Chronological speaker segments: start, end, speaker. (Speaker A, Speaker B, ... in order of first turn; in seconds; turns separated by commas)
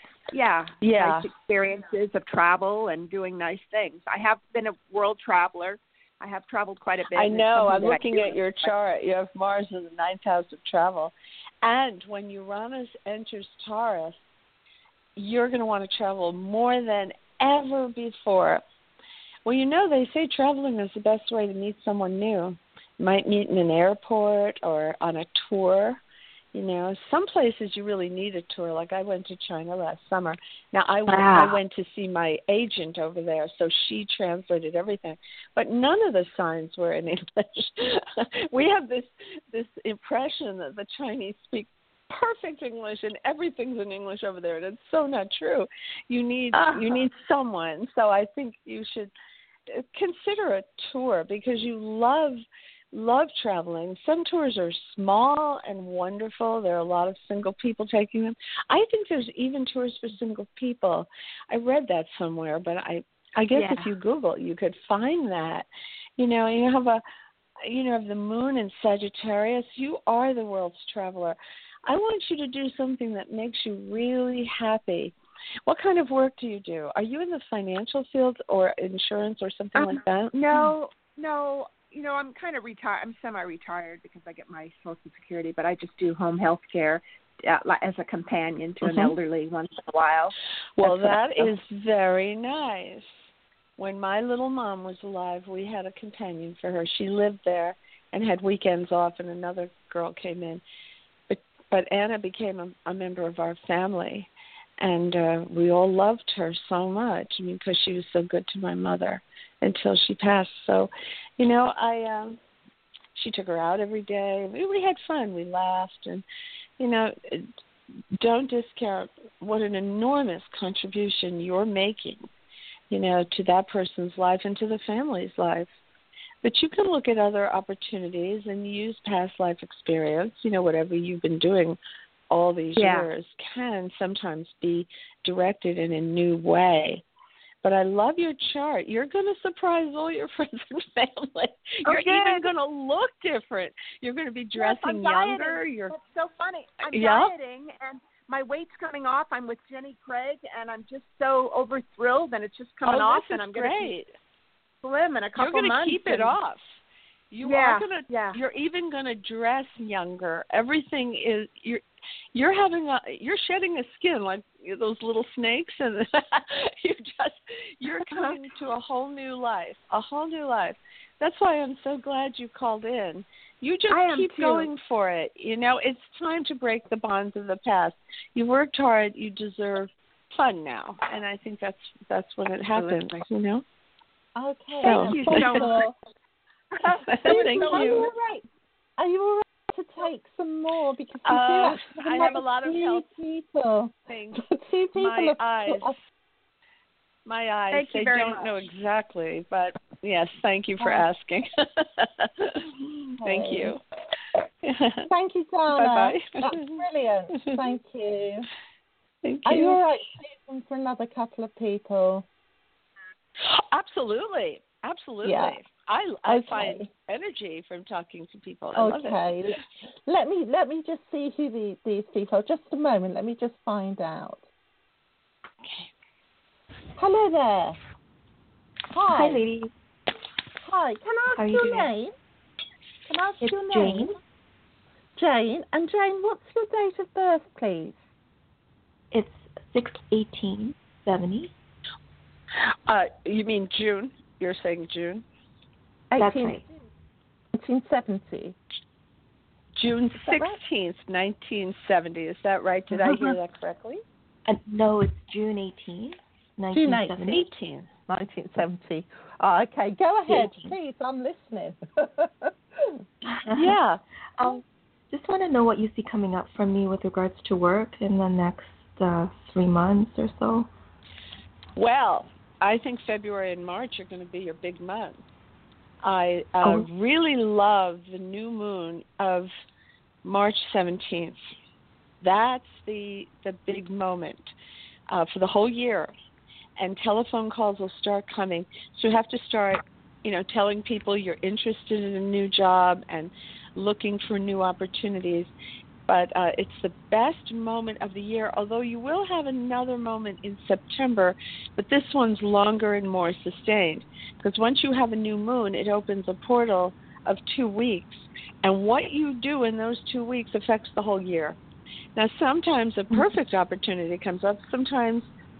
Speaker A: 0.3-8.7, Speaker B: 0.8-1.3, Speaker B: 7.1-14.2, Speaker B: 15.2-18.6, Speaker B: 19.4-26.0, Speaker B: 26.5-49.1, Speaker C: 31.1-31.6, Speaker A: 46.5-47.0, Speaker B: 49.7-52.4, Speaker B: 52.9-65.7, Speaker A: 63.5-63.9, Speaker B: 66.2-67.0, Speaker B: 67.6-75.1, Speaker B: 75.7-80.7, Speaker A: 79.8-91.5, Speaker B: 88.8-89.1, Speaker B: 90.8-93.1, Speaker B: 93.8-100.6, Speaker B: 101.3-104.3, Speaker B: 104.8-112.4, Speaker B: 113.1-116.2, Speaker B: 116.8-117.5, Speaker B: 118.2-122.2, Speaker B: 122.9-125.7, Speaker B: 126.4-131.8, Speaker B: 132.3-137.0, Speaker A: 132.8-133.1, Speaker B: 137.6-145.9, Speaker A: 141.8-142.5, Speaker A: 144.6-153.9, Speaker B: 146.9-147.3, Speaker B: 152.8-154.1, Speaker A: 154.8-156.3, Speaker B: 155.3-156.6, Speaker A: 157.3-158.4, Speaker B: 157.4-161.8, Speaker B: 162.3-183.6, Speaker A: 168.0-168.4, Speaker A: 173.9-174.7, Speaker D: 184.3-185.9, Speaker B: 184.8-185.8, Speaker A: 184.8-185.8, Speaker B: 186.8-188.1, Speaker A: 186.9-188.1, Speaker D: 187.2-188.4, Speaker D: 189.0-196.0, Speaker B: 191.2-193.1, Speaker B: 194.1-195.9, Speaker B: 197.2-203.8, Speaker A: 197.7-198.5, Speaker D: 200.8-201.1, Speaker D: 203.2-203.7, Speaker B: 204.6-205.1, Speaker D: 205.1-208.5, Speaker B: 205.7-206.8, Speaker B: 209.2-209.8, Speaker D: 209.4-212.3, Speaker B: 213.4-219.4, Speaker D: 215.2-215.6, Speaker D: 216.3-216.9, Speaker D: 218.8-224.4, Speaker B: 225.6-225.9, Speaker D: 227.0-227.8, Speaker D: 228.9-229.4, Speaker C: 229.1-229.7, Speaker D: 230.6-232.1, Speaker C: 231.3-231.9, Speaker D: 233.1-234.2, Speaker C: 233.4-234.2, Speaker D: 235.2-238.0, Speaker C: 239.1-241.5, Speaker B: 242.9-245.2, Speaker D: 246.1-246.8, Speaker C: 246.2-246.6, Speaker D: 247.5-248.6, Speaker B: 249.8-254.0, Speaker D: 250.2-250.6, Speaker C: 254.5-257.5, Speaker D: 256.7-257.4, Speaker B: 257.3-257.9, Speaker D: 258.1-263.0, Speaker C: 260.3-260.7, Speaker C: 263.4-263.7, Speaker B: 263.5-264.0, Speaker C: 264.4-270.7, Speaker B: 271.8-275.2, Speaker B: 276.0-279.5, Speaker C: 276.6-276.9, Speaker B: 280.2-281.4, Speaker B: 282.2-284.5, Speaker B: 285.1-286.1, Speaker B: 286.8-295.5, Speaker B: 296.1-311.6, Speaker B: 312.1-315.3